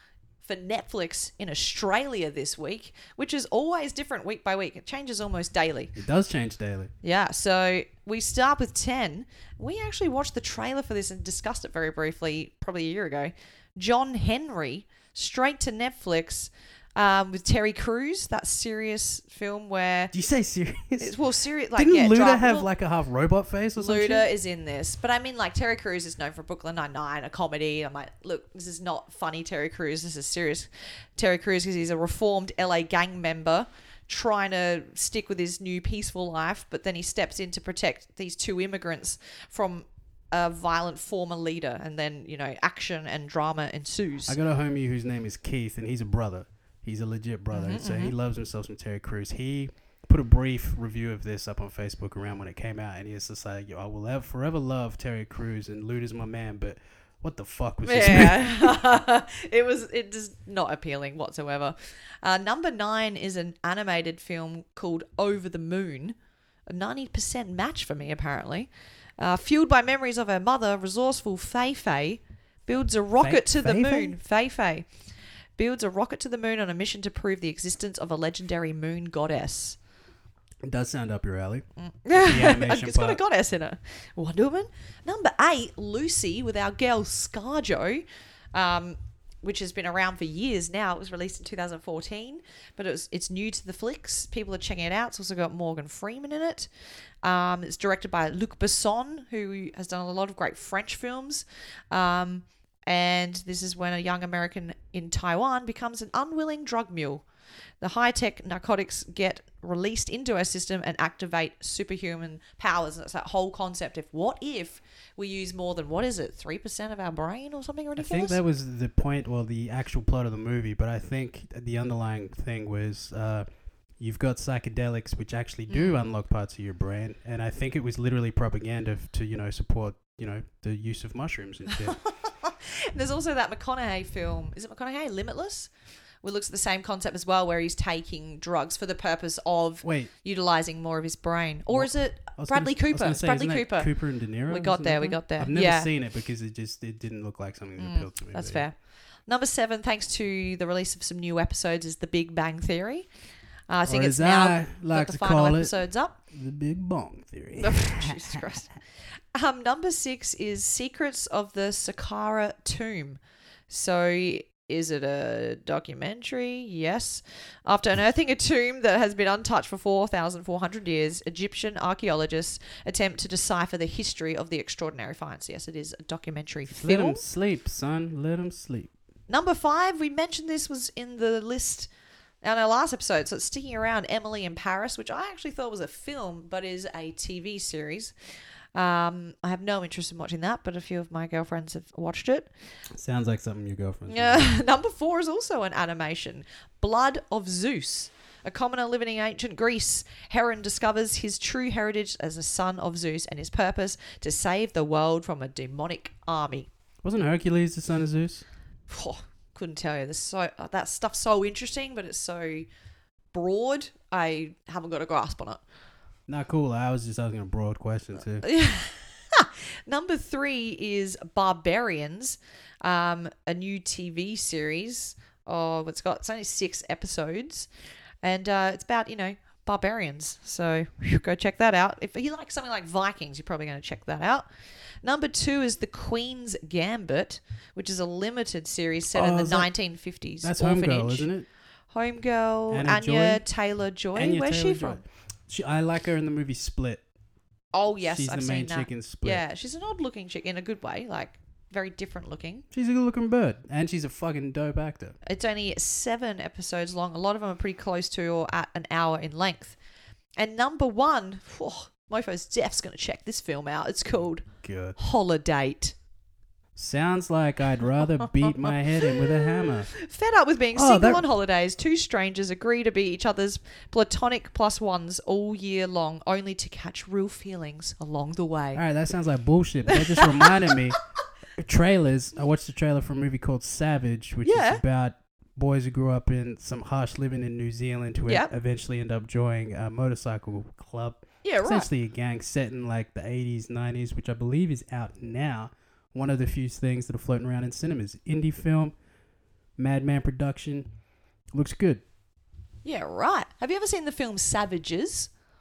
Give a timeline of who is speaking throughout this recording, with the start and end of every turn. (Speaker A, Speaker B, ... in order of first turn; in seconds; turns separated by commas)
Speaker A: 0.4-6.0, Speaker B: 6.0-6.9, Speaker A: 7.0-20.1, Speaker B: 20.1-21.2, Speaker A: 21.0-22.7, Speaker B: 21.8-24.3, Speaker A: 23.8-44.4, Speaker B: 44.3-58.8, Speaker A: 47.5-48.1, Speaker A: 57.8-66.2, Speaker A: 66.7-74.9, Speaker B: 73.2-74.2, Speaker A: 75.6-79.8, Speaker B: 80.6-83.2, Speaker A: 81.8-96.7, Speaker A: 97.2-107.2, Speaker A: 107.8-118.4, Speaker B: 118.0-123.5, Speaker B: 124.0-132.0, Speaker A: 125.7-126.0, Speaker A: 131.8-135.7, Speaker A: 136.2-143.9, Speaker B: 139.8-140.1, Speaker B: 141.7-148.7, Speaker A: 144.5-145.9, Speaker A: 147.8-148.8, Speaker A: 149.3-153.1, Speaker A: 153.7-156.2, Speaker B: 153.9-155.8, Speaker B: 156.3-158.4, Speaker A: 157.6-158.7, Speaker A: 159.3-177.2, Speaker B: 176.7-178.9, Speaker A: 179.3-181.9, Speaker A: 182.4-188.1, Speaker A: 188.7-192.5, Speaker B: 192.9-194.6, Speaker A: 194.1-206.7, Speaker B: 207.0-208.5, Speaker A: 208.9-212.7, Speaker A: 213.3-215.6, Speaker B: 216.3-218.5, Speaker A: 218.4-227.7, Speaker A: 228.2-234.5, Speaker A: 235.0-241.3, Speaker B: 239.1-239.7, Speaker B: 240.4-241.5, Speaker A: 241.9-245.0, Speaker B: 242.7-243.4, Speaker B: 244.1-247.0, Speaker A: 247.7-252.7, Speaker B: 248.1-249.4, Speaker B: 252.7-255.2, Speaker A: 255.2-259.8, Speaker A: 260.4-265.9, Speaker B: 264.6-265.0, Speaker B: 266.8-269.9, Speaker A: 268.0-278.8, Speaker B: 270.7-271.2, Speaker B: 278.8-281.0, Speaker A: 279.9-280.9, Speaker B: 281.6-298.9, Speaker A: 284.4-284.8, Speaker A: 291.4-291.9, Speaker B: 299.8-300.9, Speaker B: 301.5-302.0, Speaker A: 302.8-305.3